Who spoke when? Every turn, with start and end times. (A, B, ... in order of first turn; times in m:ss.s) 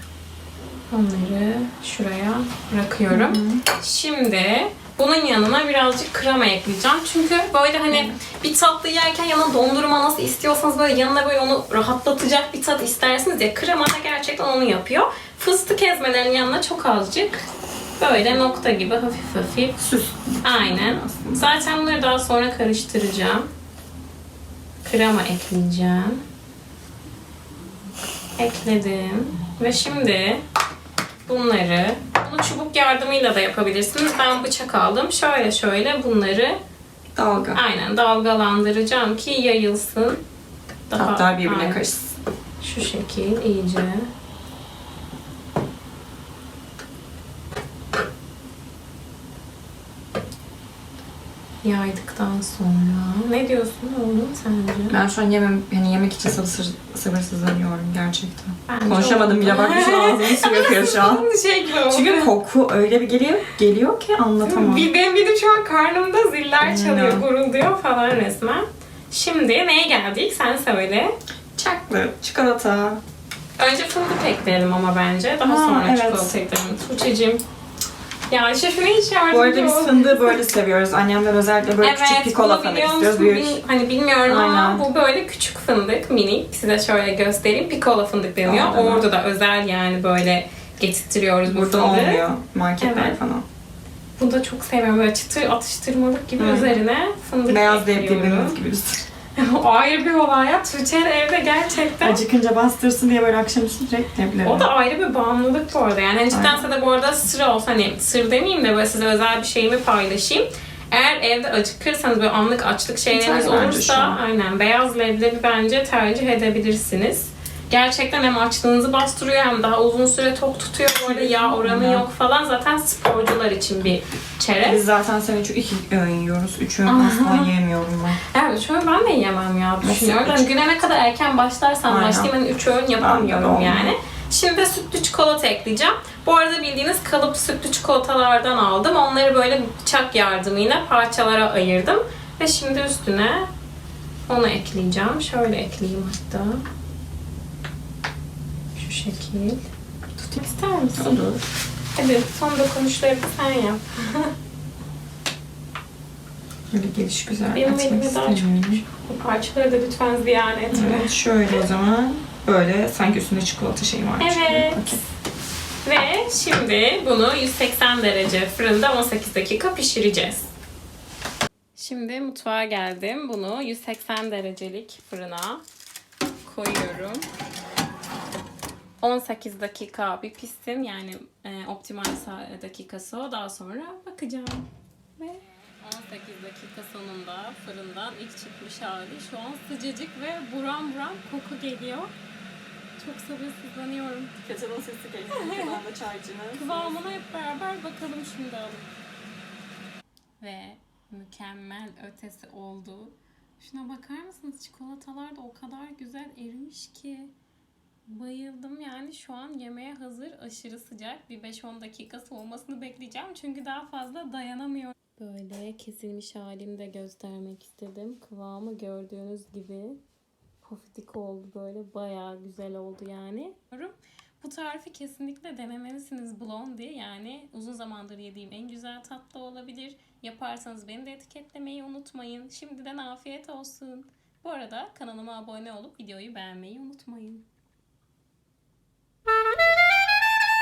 0:00.9-0:17.5 A
0:03.1-0:03.6 B
0:07.9-0:08.2 B
0:18.0-0:19.8 A
0:19.8-0:21.5 B
0:20.4-0:23.5 A
0:24.8-0:26.2 A
0:28.4-0:30.4 A
0:31.3-0:36.6 A
0:37.2-0:37.6 B
0:37.5-0:40.2 A
0:40.9-0:41.8 A
0:40.9-0:42.2 B
0:42.6-0:44.1 A
0:51.6-0:55.0 A
0:54.9-1:01.2 B
0:58.7-1:02.3 A
1:01.9-1:04.9 B
1:04.4-1:11.1 A
1:06.6-1:07.2 B
1:11.6-1:13.0 B
1:13.6-1:17.4 A
1:15.4-1:16.4 B
1:18.3-1:20.4 A
1:19.3-1:23.6 B
1:21.8-1:32.2 A
1:24.2-1:24.8 B
1:28.4-1:29.0 B
1:31.4-1:33.4 B
1:32.8-1:33.2 A
1:34.2-1:38.6 A
1:36.4-1:36.8 B
1:37.5-1:39.0 B
1:39.4-1:42.2 A
1:42.0-1:44.7 B
1:44.4-2:04.8 A
1:46.3-1:46.6 B
1:53.1-1:54.2 B
2:01.0-2:02.0 B
2:04.6-2:08.2 B
2:06.9-2:07.5 A
2:08.3-2:23.5 A
2:09.8-2:10.5 B
2:11.9-2:12.3 B
2:13.0-2:13.9 B
2:24.3-2:26.6 A
2:28.8-2:29.6 A
2:30.4-2:31.2 A
2:31.0-2:31.4 B
2:32.0-2:34.3 A
2:36.7-2:38.8 B
2:37.5-2:41.1 A
2:40.7-2:45.0 B
2:44.2-2:45.0 A
2:45.8-2:50.5 A
2:51.8-2:55.6 A
2:56.4-2:57.2 A
2:59.0-3:12.1 A
3:13.0-3:14.3 A
3:14.4-3:17.2 B
3:15.3-3:15.8 A
3:16.5-3:18.8 A
3:20.4-3:27.3 A
3:28.1-3:40.0 A
3:40.6-3:57.4 A